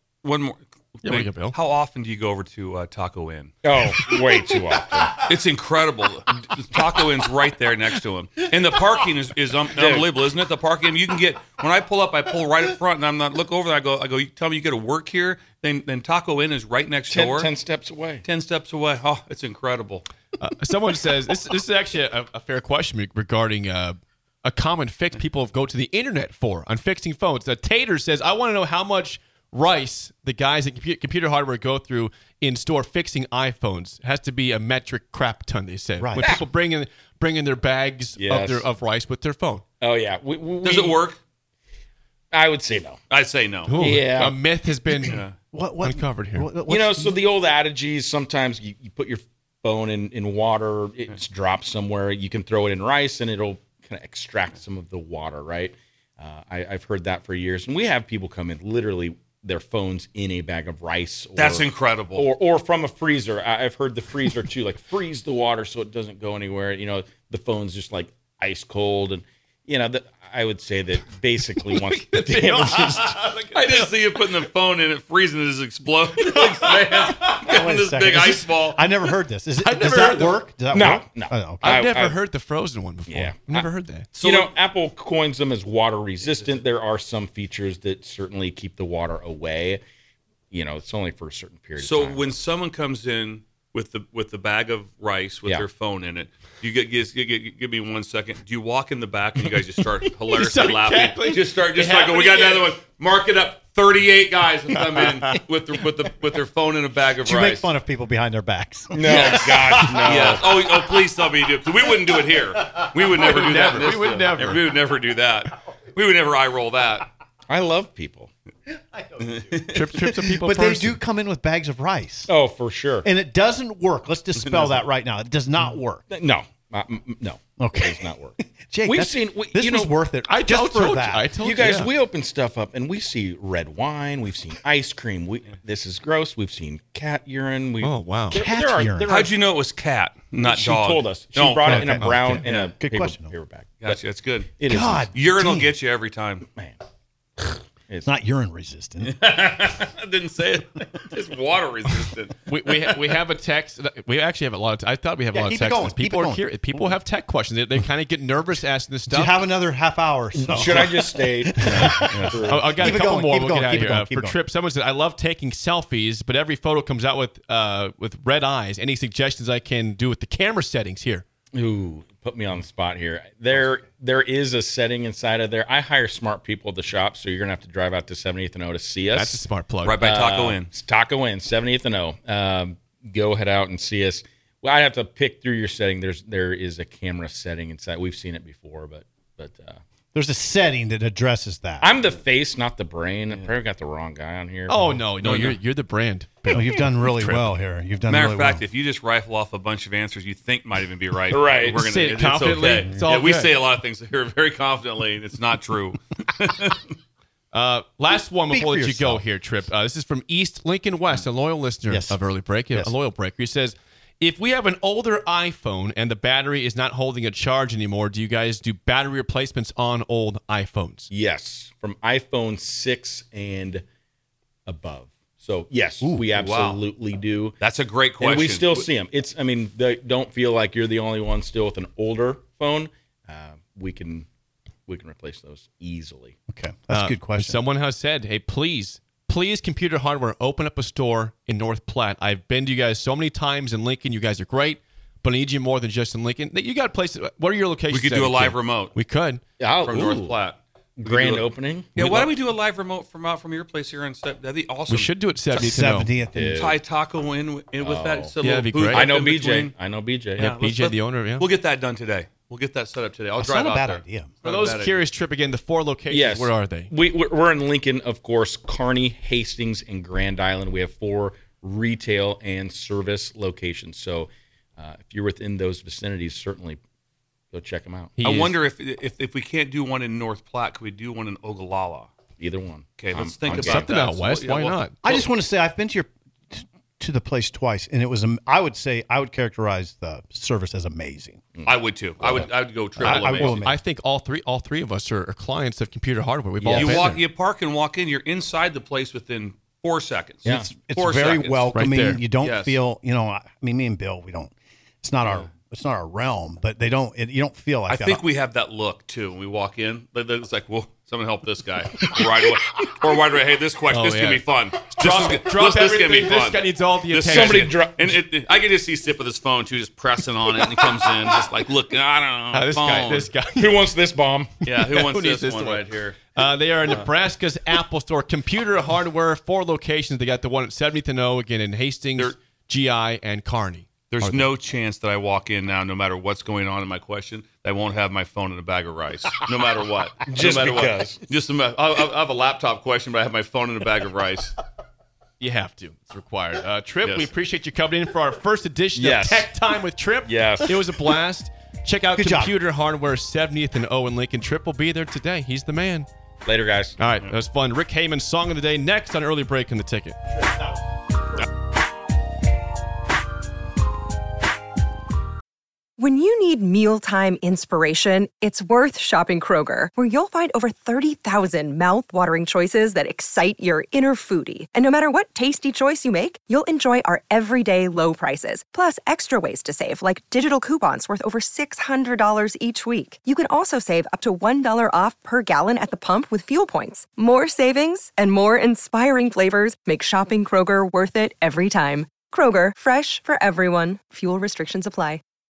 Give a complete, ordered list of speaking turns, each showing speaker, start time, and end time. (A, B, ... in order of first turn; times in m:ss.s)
0:00.2-0:03.5 A
0:01.0-0:01.6 B
0:03.6-0:05.2 C
0:05.2-0:17.5 A
0:09.8-0:10.1 C
0:17.1-0:18.2 C
0:18.2-0:20.1 A
0:20.4-0:39.6 B
0:36.0-0:36.3 D
0:38.2-0:38.6 C
0:39.8-0:41.0 C
0:40.6-0:41.2 A
0:42.3-0:43.0 C
0:43.1-0:43.8 A
0:43.6-0:45.2 B
0:43.8-0:44.4 C
0:45.0-0:45.3 A
0:45.5-0:47.1 D
0:45.8-0:46.5 B
0:46.6-1:13.2 C
1:01.4-1:02.2 A
1:12.1-1:13.8 B
1:12.9-1:18.8 A
1:17.5-1:21.8 D
1:19.6-1:20.4 B
1:20.7-1:22.2 C
1:21.6-1:24.1 B
1:23.1-1:23.7 C
1:24.1-1:24.5 A
1:24.2-1:29.8 C
1:30.5-1:32.3 C
1:31.8-1:47.7 A
1:40.3-1:42.7 B
1:47.2-1:50.3 D
1:48.9-1:50.6 C
1:49.1-1:57.1 A
1:53.1-1:54.6 B
1:57.5-1:58.3 C
1:58.7-2:02.3 D
1:59.2-1:59.9 A
1:59.7-2:01.0 B
2:02.3-2:03.0 C
2:03.0-2:06.0 D
2:04.4-2:04.8 A
2:06.1-2:09.9 C
2:07.6-2:11.4 D
2:10.2-2:11.9 B
2:11.4-2:19.3 C
2:17.8-2:18.4 B
2:18.3-2:19.1 D
2:19.1-2:22.0 A
2:20.4-2:24.0 C
2:21.6-2:23.3 D
2:22.0-2:22.3 B
2:23.8-2:24.5 A
2:24.6-2:25.1 C
2:24.7-2:25.7 D
2:25.1-2:26.4 A
2:26.5-2:26.8 C
2:27.4-2:28.1 C
2:28.0-2:29.2 D
2:29.0-2:32.4 A
2:32.5-2:39.5 B
2:35.3-2:36.6 D
2:39.1-2:44.4 D
2:40.5-2:42.8 C
2:41.9-2:42.7 A
2:42.5-2:51.2 B
2:51.5-2:59.4 C
2:59.1-3:00.0 B
2:59.8-3:00.7 A
3:00.0-3:09.8 C
3:10.1-3:11.9 D
3:11.8-3:14.9 C
3:14.7-3:16.5 B
3:15.2-3:15.6 A
3:16.4-3:18.6 D
3:17.1-3:17.5 B
3:18.1-3:26.9 A
3:21.3-3:21.8 C
3:21.7-3:23.6 B
3:27.5-3:41.1 B
3:28.5-3:29.2 D
3:31.9-3:32.9 D
3:41.1-3:43.8 C
3:44.6-3:47.6 C
3:46.4-3:46.8 A
3:47.6-3:48.9 A
3:48.2-3:54.3 C
3:54.8-3:56.4 C
3:56.5-3:57.6 D
3:56.9-4:09.4 B
4:07.9-4:08.9 A
4:09.6-4:10.4 C
4:09.8-4:15.1 A
4:11.0-4:12.3 C
4:14.9-4:16.1 B
4:15.6-4:16.7 D
4:16.3-4:16.8 C
4:16.6-4:19.7 A
4:17.8-4:18.4 C
4:18.4-4:19.1 B
4:18.9-4:20.5 C
4:20.4-4:21.5 B
4:20.4-4:25.0 A
4:23.4-4:24.3 D
4:24.4-4:26.9 B
4:26.1-4:36.8 C
4:37.5-4:38.2 C
4:38.2-4:38.6 B
4:38.2-4:42.1 A
4:42.4-4:43.9 C
4:43.0-4:45.2 A
4:43.6-4:45.0 B
4:45.0-4:51.4 D
4:51.6-4:52.5 C
4:51.6-4:53.7 A
4:53.0-4:53.8 D
4:53.0-4:57.2 B
4:56.6-4:57.1 C
4:56.8-5:02.8 A
5:00.4-5:08.2 D
5:01.7-5:02.2 B
5:07.9-5:23.3 A
5:13.9-5:17.8 B
5:17.3-5:18.1 C
5:22.5-5:24.0 B
5:23.6-5:24.6 C
5:24.6-5:26.3 A
5:24.6-5:34.5 B
5:34.1-5:44.6 A
5:40.3-5:41.2 C
5:45.4-5:56.1 B
5:47.0-5:47.3 A
5:48.9-5:49.5 C
5:50.2-5:50.7 C
5:52.1-5:52.5 D
5:56.4-5:57.0 C
5:57.0-6:00.2 B
6:00.3-6:00.8 D
6:06.0-6:35.2 E